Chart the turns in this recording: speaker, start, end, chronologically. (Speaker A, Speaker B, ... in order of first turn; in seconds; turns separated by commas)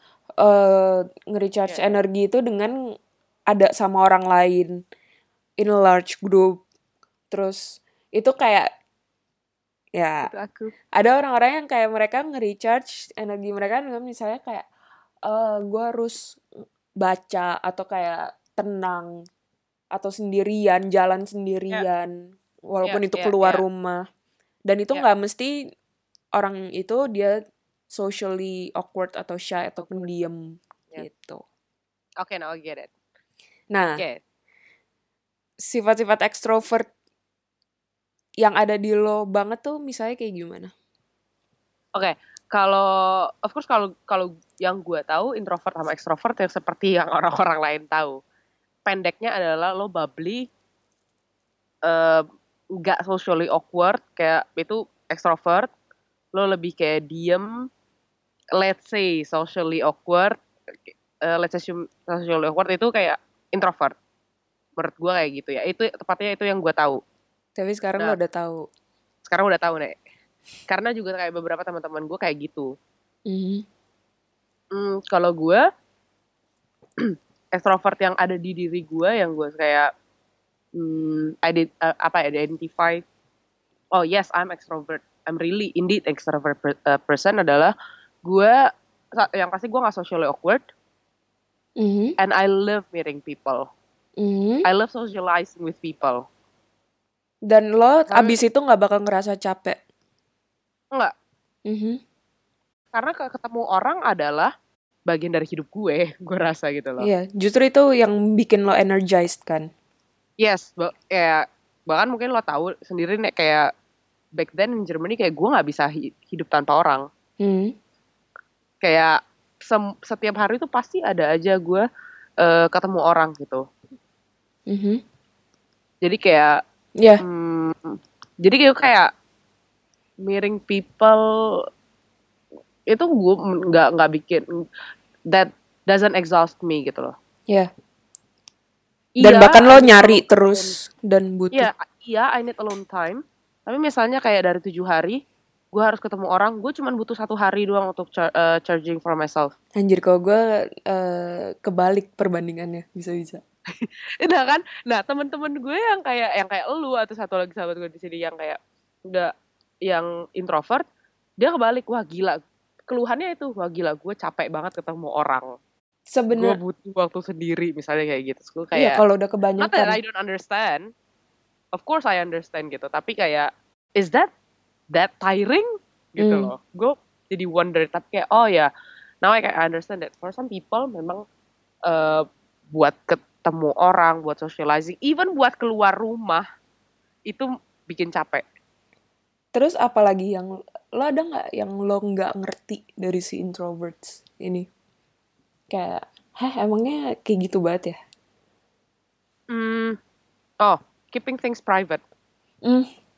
Speaker A: 0.4-2.7, Speaker B: 1.7-2.0, Speaker A: 3.5-4.7, Speaker A: 5.6-6.6, Speaker A: 7.3-8.7, Speaker A: 9.9-10.3, Speaker B: 10.2-10.7, Speaker A: 10.9-14.7, Speaker A: 15.3-16.4, Speaker A: 17.0-19.1, Speaker A: 19.9-24.0, Speaker B: 22.8-23.6, Speaker A: 24.7-25.5, Speaker A: 26.4-27.3, Speaker A: 27.9-31.4, Speaker B: 29.8-30.1, Speaker B: 32.2-32.9, Speaker A: 33.7-34.0, Speaker A: 35.7-36.9, Speaker A: 38.4-40.7, Speaker B: 42.0-48.2, Speaker B: 48.9-50.5, Speaker B: 51.9-52.2, Speaker B: 52.8-55.7, Speaker B: 56.3-57.5, Speaker B: 58.6-60.4, Speaker B: 60.9-63.9, Speaker B: 64.8-67.0, Speaker A: 67.6-68.7, Speaker B: 69.3-69.9, Speaker B: 70.7-72.7, Speaker A: 73.3-73.6, Speaker B: 74.7-75.6, Speaker B: 77.1-79.9, Speaker B: 80.8-83.0, Speaker B: 83.9-87.7, Speaker B: 88.2-88.6, Speaker B: 89.2-90.6, Speaker A: 91.8-92.1, Speaker B: 92.2-93.7, Speaker A: 94.2-94.6, Speaker B: 94.6-96.2, Speaker A: 97.5-99.8, Speaker B: 98.1-98.3, Speaker A: 101.7-102.0, Speaker B: 102.9-104.5, Speaker B: 105.1-107.1, Speaker A: 107.0-109.7, Speaker B: 110.4-113.7, Speaker B: 114.4-117.0, Speaker A: 117.4-117.7, Speaker B: 118.8-121.8, Speaker B: 122.4-123.6, Speaker A: 124.7-125.0, Speaker B: 126.0-126.6, Speaker B: 127.2-129.1, Speaker B: 130.2-131.2, Speaker B: 132.9-134.6, Speaker B: 135.3-137.1, Speaker B: 139.2-140.7, Speaker A: 139.2-141.7, Speaker B: 141.5-145.2, Speaker B: 145.7-149.5, Speaker A: 149.8-153.4, Speaker B: 153.8-158.6, Speaker B: 159.9-160.8, Speaker B: 161.4-165.4, Speaker A: 166.1-166.6, Speaker B: 166.3-169.0, Speaker A: 168.7-170.0, Speaker B: 169.6-170.8, Speaker B: 171.8-174.3, Speaker B: 174.9-178.7, Speaker A: 176.2-176.5, Speaker B: 179.2-181.2, Speaker B: 181.9-186.4, Speaker B: 187.3-188.4, Speaker A: 189.5-194.7, Speaker A: 195.7-198.0, Speaker B: 199.5-200.0, Speaker B: 200.6-202.0